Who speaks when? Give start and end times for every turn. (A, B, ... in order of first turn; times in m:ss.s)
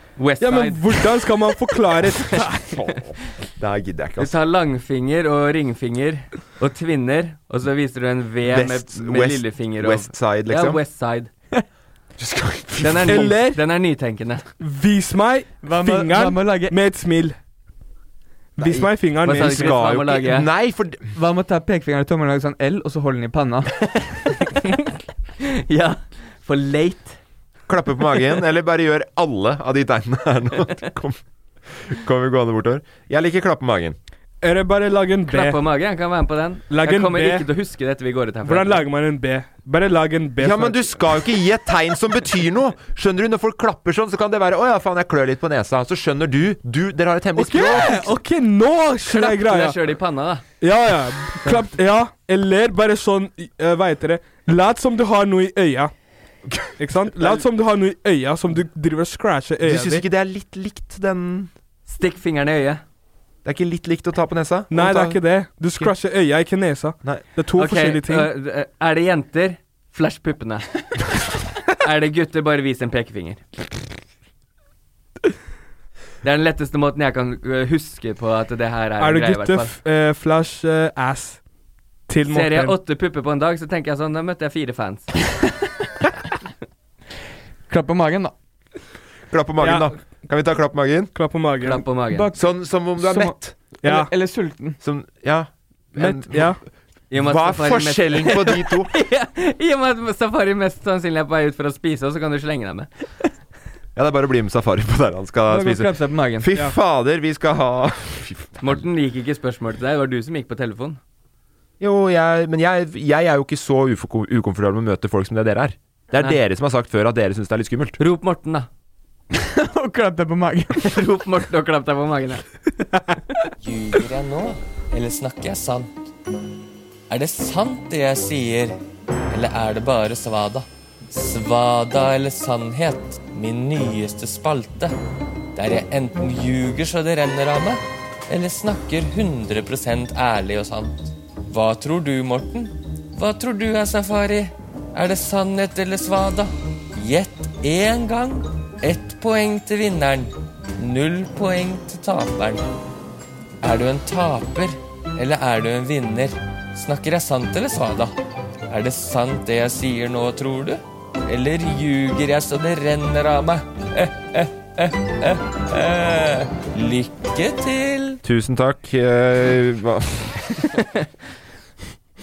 0:00.2-0:00.8 A
0:00.4-0:02.8 B
0:02.6-0:04.3 C
0:04.2-0:11.3 A
0:08.4-0:10.8 C
0:12.2-0:13.3 C
0:12.8-0:14.4 A
0:13.1-0:13.6 B
0:14.6-0:17.4 B
0:15.6-0:16.8 D
0:18.6-0:19.8 B
0:18.6-0:21.1 C
0:19.2-0:20.5 A
0:21.1-0:23.9 D
0:25.4-0:27.2 A
0:27.7-0:34.0 C
0:34.4-0:35.6 B
0:35.3-0:38.8 A
0:36.7-0:37.5 B
0:38.4-0:41.0 B
0:40.4-0:48.1 C
0:47.4-0:49.8 B
0:49.0-0:50.4 A
0:50.6-0:55.9 B
0:56.5-0:57.4 C
0:56.8-1:00.0 B
0:59.6-1:01.5 C
1:01.9-1:02.8 A
1:03.4-1:05.2 C
1:04.7-1:08.3 B
1:07.6-1:10.7 A
1:11.8-1:13.4 A
1:16.2-1:19.7 A
1:19.0-1:21.4 B
1:22.1-1:22.8 B
1:22.3-1:25.1 A
1:27.7-1:28.3 D
1:29.3-1:31.1 C
1:29.6-1:29.9 B
1:31.1-1:31.8 B
1:31.6-1:32.3 A
1:32.1-1:32.5 D
1:32.3-1:33.6 C
1:33.0-1:34.8 D
1:33.8-1:34.1 B
1:34.8-1:36.6 C
1:36.0-1:36.6 B
1:37.1-1:42.9 A
1:37.1-1:38.9 C
1:43.9-1:48.8 C
1:45.5-1:46.5 D
1:48.6-1:51.0 A
1:51.8-1:58.0 C
1:58.0-1:58.7 A
1:59.3-2:01.0 D
2:00.8-2:02.4 A
2:03.6-2:05.8 E
2:07.1-2:08.7 E
2:09.3-2:14.9 E
2:15.6-2:17.8 E
2:18.3-2:20.9 E
2:19.5-2:20.6 A
2:21.5-2:32.6 E
2:21.6-2:22.4 A
2:23.3-2:24.2 A
2:25.1-2:26.3 A
2:27.7-2:28.0 A
2:29.0-2:30.0 A
2:33.6-2:38.1 E
2:34.0-2:34.3 A
2:35.7-2:36.1 A
2:37.0-2:37.9 A
2:38.7-2:40.8 E
2:39.2-2:40.4 A
2:41.3-2:43.6 E
2:45.8-2:46.2 E
2:46.6-2:47.2 A
2:46.9-2:48.1 E
2:48.2-2:50.7 C